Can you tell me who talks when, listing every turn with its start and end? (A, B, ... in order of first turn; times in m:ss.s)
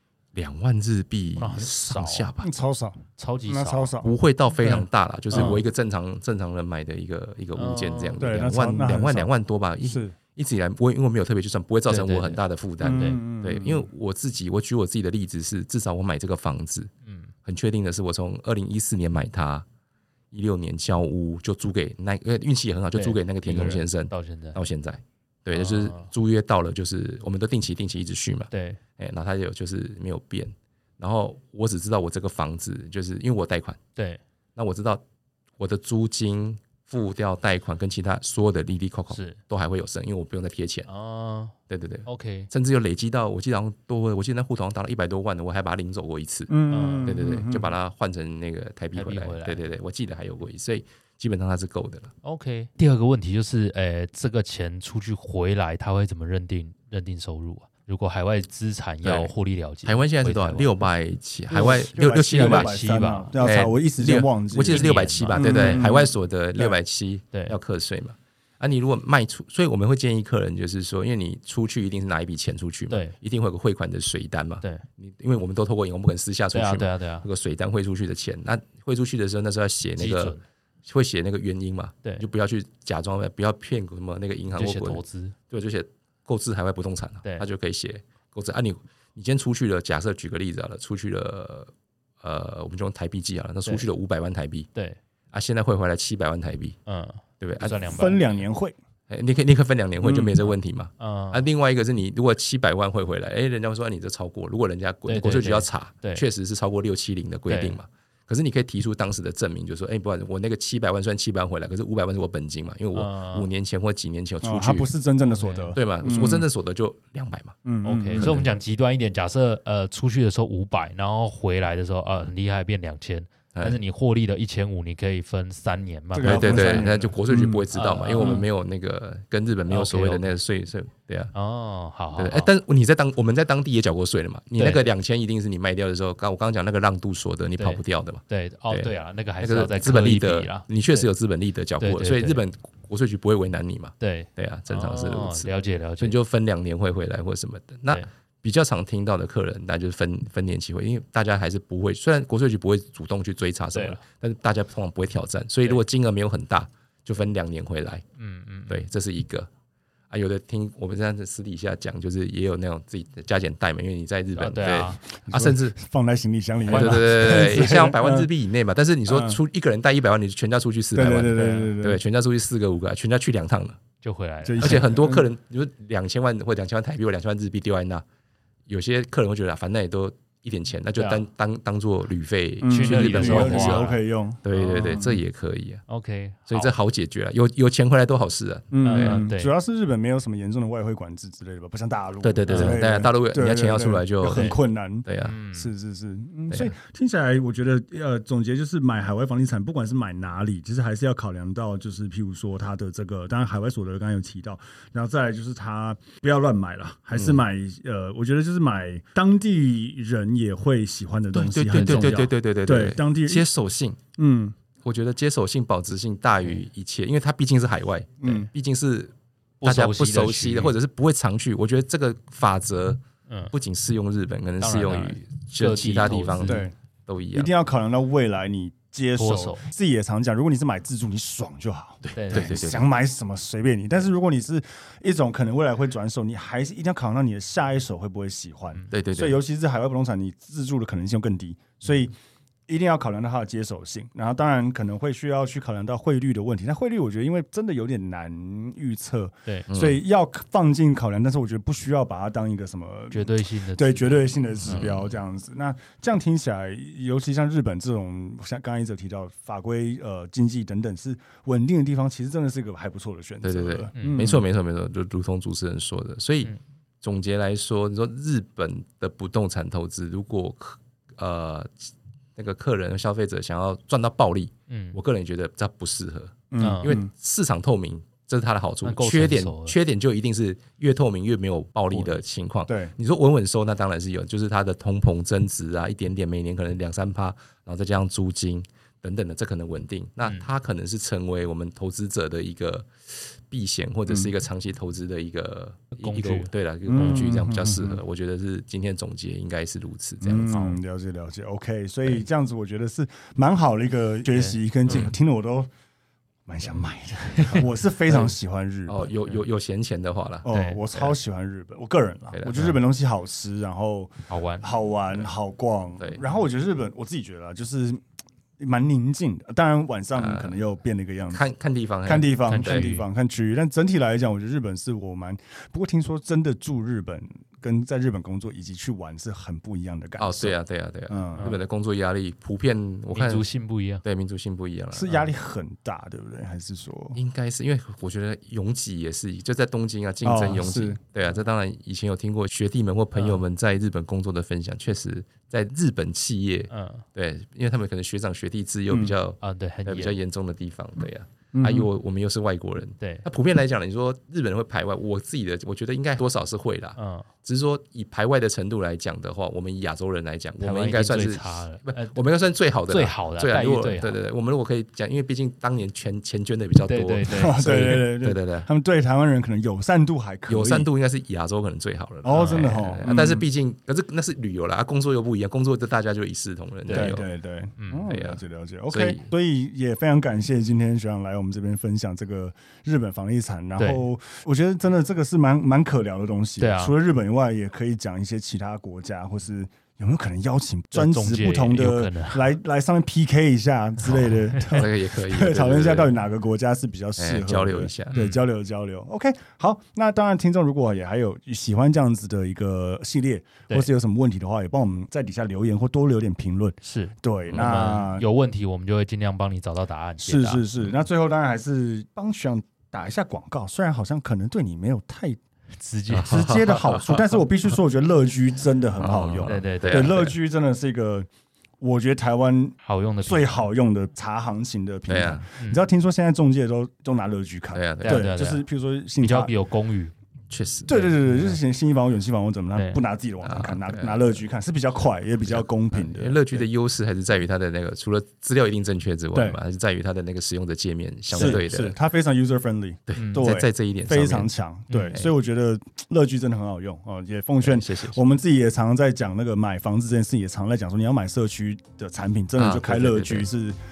0:00.3-0:02.5 A
0:01.4-0:02.3 B
0:02.4-0:04.1 C
0:03.2-0:04.0 B
0:04.0-0:16.9 A
0:04.6-0:05.6 C
0:05.3-0:05.6 B
0:07.5-0:08.2 B
0:08.2-0:09.3 C
0:09.8-0:10.2 C
0:11.9-0:13.2 B
0:12.8-0:13.9 C
0:17.0-0:17.3 B
0:17.4-0:19.6 A
0:20.3-0:33.8 A
0:22.9-0:24.6 B
0:25.5-0:26.1 B
0:28.5-0:28.8 B
0:34.0-0:34.2 B
0:34.6-0:35.0 A
0:35.6-0:40.9 A
0:39.1-0:39.4 B
0:40.9-0:41.5 B
0:41.7-0:46.5 A
0:42.0-0:42.5 B
0:46.5-0:47.7 C
0:46.7-0:47.3 B
0:47.0-0:52.1 A
0:48.9-0:49.6 B
0:52.2-1:00.7 B
0:59.0-0:59.3 A
0:59.8-1:02.7 A
1:01.5-1:06.8 C
1:02.3-1:03.4 B
1:03.4-1:34.7 A
1:04.7-1:05.9 B
1:12.9-1:13.2 B
1:16.5-1:17.3 B
1:20.0-1:20.4 B
1:24.5-1:25.4 B
1:35.3-1:36.8 A
1:36.9-1:38.4 B
1:37.4-1:37.9 A
1:37.8-1:38.8 C
1:39.1-1:54.9 A
1:40.0-1:40.3 C
1:41.0-1:41.4 B
1:45.1-1:46.2 B
1:47.5-1:47.8 B
1:52.9-1:53.5 B
1:54.4-1:56.4 C
1:55.2-1:56.3 B
1:55.7-1:57.6 A
1:57.6-1:58.5 C
1:57.8-2:06.9 B
2:03.5-2:03.8 A
2:06.1-2:07.6 C
2:06.2-2:11.3 A
2:07.7-2:08.5 B
2:09.7-2:10.3 B
2:11.3-2:12.5 B
2:12.1-2:38.0 A
2:14.5-2:14.8 B
2:17.6-2:21.1 B
2:21.8-2:22.4 B
2:24.0-2:26.2 B
2:33.7-2:34.0 B
2:38.2-2:38.8 B
2:38.7-2:39.5 A
2:40.1-2:45.8 A
2:44.4-2:45.0 B
2:45.1-2:48.3 C
2:46.6-2:53.8 A
2:46.7-2:47.7 B
2:49.1-2:49.4 C
2:50.9-2:52.0 C
2:51.3-2:51.7 B
2:54.0-2:54.8 B
2:54.4-2:55.2 C
2:54.6-2:58.0 A
2:58.7-3:05.8 A
3:01.0-3:01.2 B
3:02.6-3:05.2 C
3:02.7-3:05.0 B
3:05.9-3:06.7 B
3:06.5-3:09.2 A
3:08.7-3:33.5 C
3:08.8-3:09.5 B
3:12.2-3:15.4 A
3:12.5-3:12.8 B
3:15.2-3:15.7 B
3:27.1-3:27.4 A
3:31.3-3:34.0 A
3:34.2-3:34.5 C
3:34.8-3:47.5 A
3:38.2-3:38.5 C
3:39.6-3:40.7 B
3:43.3-3:43.5 B
3:44.6-3:46.7 B
3:46.4-3:46.7 C
3:47.3-4:02.1 C
3:49.2-3:49.7 B
3:52.0-3:52.8 A
3:52.1-3:52.7 B
3:58.9-3:59.4 A
4:02.7-4:24.4 C
4:09.7-4:10.0 A
4:13.1-4:14.8 B
4:14.6-4:15.1 A
4:23.4-5:00.6 A
4:24.0-4:24.3 B
4:34.7-4:35.0 B
4:36.5-4:37.1 C
4:36.6-4:37.0 B
4:38.8-4:39.8 B
4:41.9-4:42.9 C
4:56.0-4:57.3 B
4:56.9-4:58.0 C
5:00.2-5:05.7 C
5:00.5-5:00.8 B
5:04.3-5:05.1 B
5:06.5-5:09.1 C
5:07.4-5:08.3 A
5:08.9-5:10.5 A
5:10.4-5:18.0 C
5:10.5-5:11.0 B
5:12.3-5:12.6 A
5:14.3-5:14.7 B
5:18.6-5:21.4 C
5:20.2-5:20.6 A
5:21.3-5:22.9 A
5:22.0-5:30.6 C
5:22.4-5:23.1 B
5:30.2-5:33.4 A
5:31.1-5:31.5 C
5:33.1-5:34.0 B
5:34.0-5:35.1 A
5:34.9-5:37.2 C
5:37.1-6:08.7 A
5:40.2-5:41.0 C
5:43.2-5:43.4 B
5:46.7-5:47.0 B
5:48.9-5:49.2 C
5:49.4-5:50.1 B
5:51.5-5:51.9 C
5:53.0-5:53.3 B
5:57.0-5:57.3 B
6:00.6-6:02.2 B
6:02.9-6:04.2 B
6:06.8-6:08.1 B
6:07.2-6:10.9 C
6:10.5-6:17.2 A
6:12.2-6:13.4 C
6:12.3-6:12.8 B
6:16.9-6:17.2 B
6:16.9-6:48.3 C
6:17.8-6:18.1 B
6:18.1-6:19.3 A
6:23.8-6:24.0 B
6:26.6-6:26.9 B
6:30.9-6:32.5 B
6:34.6-6:36.2 A
6:37.2-6:38.2 A
6:38.1-6:38.4 B
6:46.8-6:50.6 B
6:50.2-6:55.4 C
6:55.8-6:56.7 B
6:56.1-6:57.4 A
6:56.2-7:01.3 C
6:59.0-7:00.3 A
6:59.4-7:00.2 B
7:01.8-7:09.5 C
7:02.8-7:03.6 B
7:05.1-7:05.4 A
7:07.7-7:08.3 A
7:08.0-7:08.6 B
7:09.2-7:10.1 B
7:10.5-7:10.9 A
7:10.9-7:16.6 C
7:10.9-7:11.6 B
7:12.7-7:13.0 B
7:13.4-7:14.4 A
7:15.4-7:22.0 A
7:19.3-7:19.6 C
7:21.3-7:33.8 C
7:23.1-7:24.5 A
7:23.2-7:23.5 B
7:24.9-7:25.2 B
7:27.6-7:28.2 A
7:32.6-7:33.5 A